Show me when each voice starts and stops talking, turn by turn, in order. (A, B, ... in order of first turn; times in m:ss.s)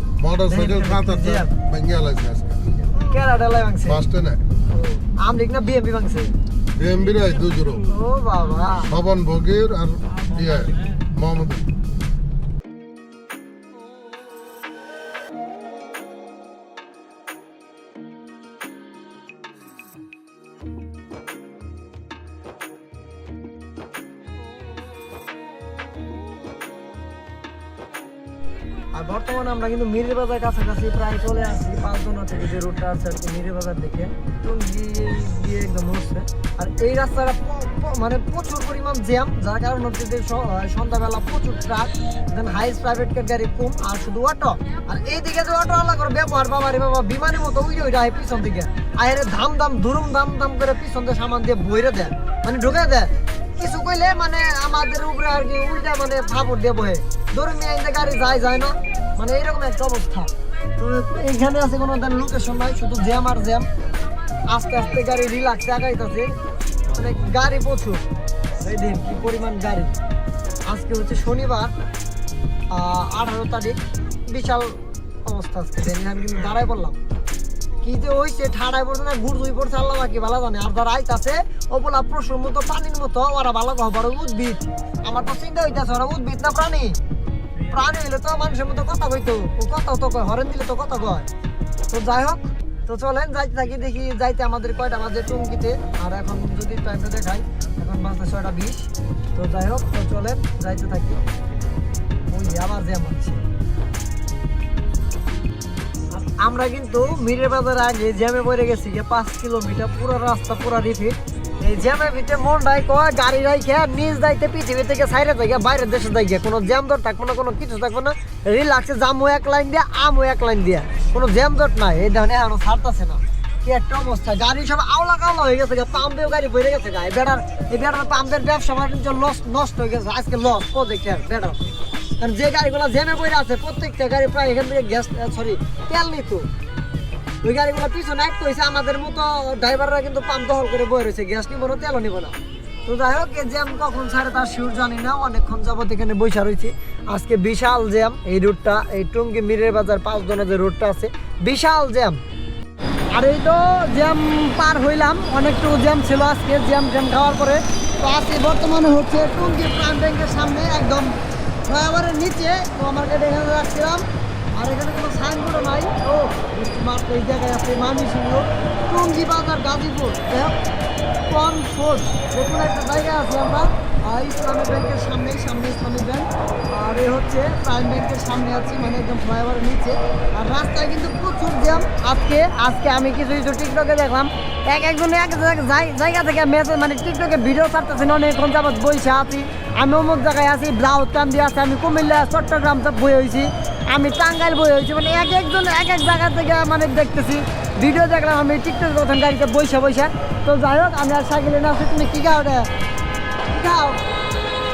0:00.2-0:02.8 A
0:00.5-0:01.5 B
0:03.0-0:04.1 B
0:03.8-0:04.4 A
0:04.7-0:06.3 B
0:06.8-0:07.9 A
0:07.8-0:08.9 B
0:08.8-0:11.7 A
0:28.9-1:03.7 B
1:04.5-1:06.3 B
1:06.9-1:08.0 B
1:08.6-1:09.9 B
1:10.6-1:11.7 B
1:12.7-1:17.0 B
1:17.8-1:27.0 B
1:27.6-1:31.3 B
1:31.9-1:41.2 B
1:42.3-1:43.4 B
1:46.1-2:11.6 B
2:12.2-2:16.5 B
2:17.4-2:22.3 B
2:22.8-2:32.2 B
2:33.1-2:41.2 B
2:41.7-2:50.6 B
2:51.3-3:22.7 B
3:23.5-3:24.0 B